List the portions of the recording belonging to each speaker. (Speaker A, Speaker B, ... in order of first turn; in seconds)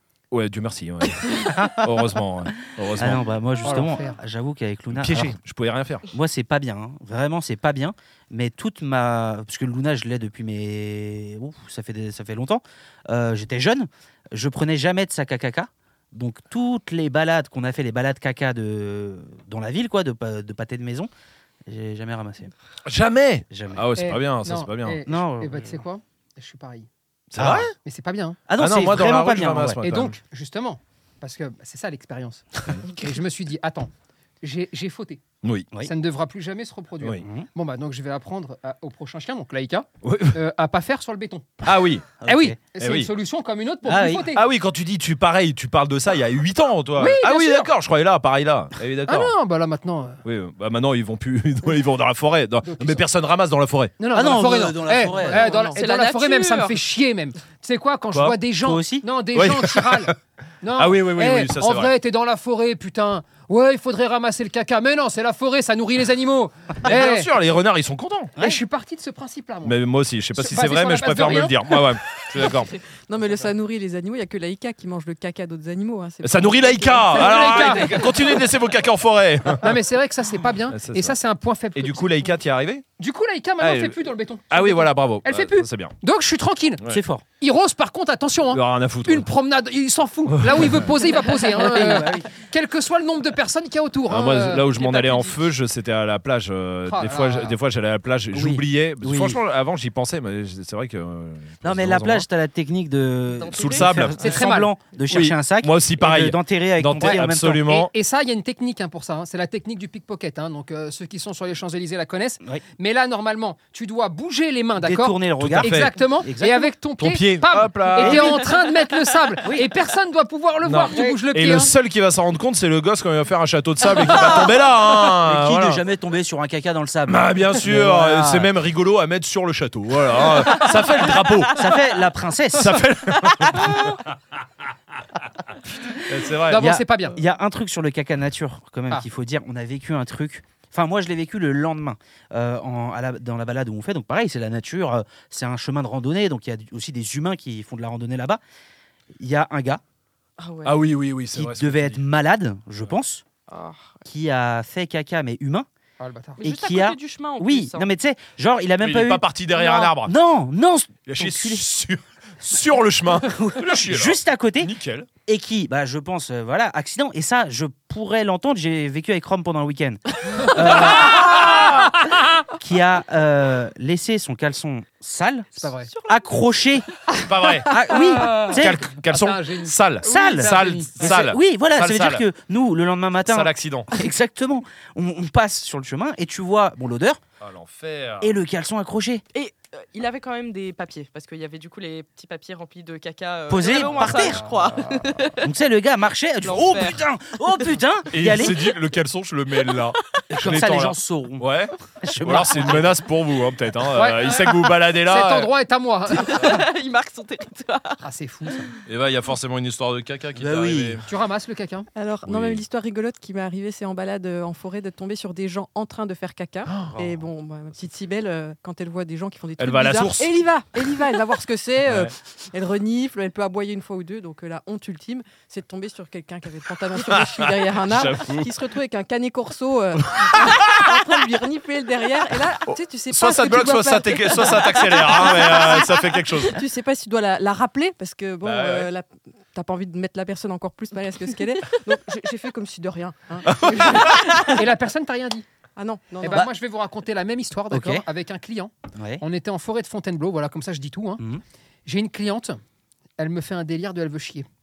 Speaker A: 0.3-3.2, 5.0-6.1, 22.9-25.0, 27.3-27.7, 28.6-30.2, 35.4-35.7, 40.0-40.4, 41.6-42.1, 42.8-43.1, 44.3-49.3, 50.2-53.9, 59.4-60.1, 60.8-61.9, 66.8-68.3, 69.6-72.8, 76.2-79.7, 80.7-81.2, 81.8-82.8, 83.6-85.9, 88.5-89.3, 90.3-90.9, 94.1-102.3, 103.5-104.3, 105.1-107.9, 115.4-115.9, 117.0-118.5, 120.6-125.8, 127.1-131.7, 132.5-134.1, 136.0-136.7, 150.6-152.0, 158.8-160.2, 161.1-165.1, 170.6-171.9, 177.2-177.8, 178.3-182.3, 183.3-183.9, 187.4-188.3, 198.1-205.5, 208.8-211.1, 212.3-212.6, 216.7-217.0, 219.6-220.4, 221.8-222.1, 227.0-228.5, 230.1-231.0, 233.1-236.6, 238.4-238.9, 243.4-244.4
Speaker B: 1.4-1.8, 3.0-5.4, 6.1-21.1, 21.7-22.5, 23.5-23.9, 25.1-25.7, 27.4-27.7, 28.5-29.8, 37.2-37.5, 42.2-42.6, 43.9-44.3, 54.1-55.7, 58.6-59.1, 86.9-87.2, 91.6-92.3, 98.3-99.4, 101.6-107.7, 114.8-116.7, 118.0-118.4, 125.2-128.5, 131.5-132.8, 136.5-148.4, 149.2-149.8, 151.3-153.2, 154.1-155.7, 156.4-161.7, 163.2-164.7, 165.3-171.5, 172.5-176.9, 177.6-178.8, 180.0-187.2, 188.2-189.2, 193.5-194.4, 195.4-198.7, 200.3-201.5, 202.0-203.0, 210.4-211.0, 247.7-248.1, 248.9-249.2
Speaker C: 3.6-4.2, 24.0-26.9, 27.8-28.4, 29.8-33.9, 34.4-35.2, 35.8-41.6, 42.2-44.5, 47.0-47.7, 49.1-50.2, 52.6-53.1, 54.0-67.3, 68.4-69.8, 70.4-71.8, 77.1-78.1, 79.6-82.3, 83.0-86.8, 87.4-94.8, 96.9-97.6, 104.2-104.7, 107.7-121.7, 136.5-137.2, 156.0-156.4, 175.6-175.9, 178.1-181.3, 193.7-195.1, 203.9-206.6, 208.0-208.7, 211.1-211.9, 244.4-245.4, 246.2-251.2, 251.9-252.6, 253.2-254.5
Speaker D: 55.3-55.8, 72.9-78.0, 211.9-244.5, 245.8-246.5
Speaker E: 55.8-56.8, 94.7-95.5, 103.4-104.3, 150.4-150.9, 153.5-154.0, 156.4-157.9, 175.9-176.3, 189.3-195.5, 196.4-197.6, 206.1-208.0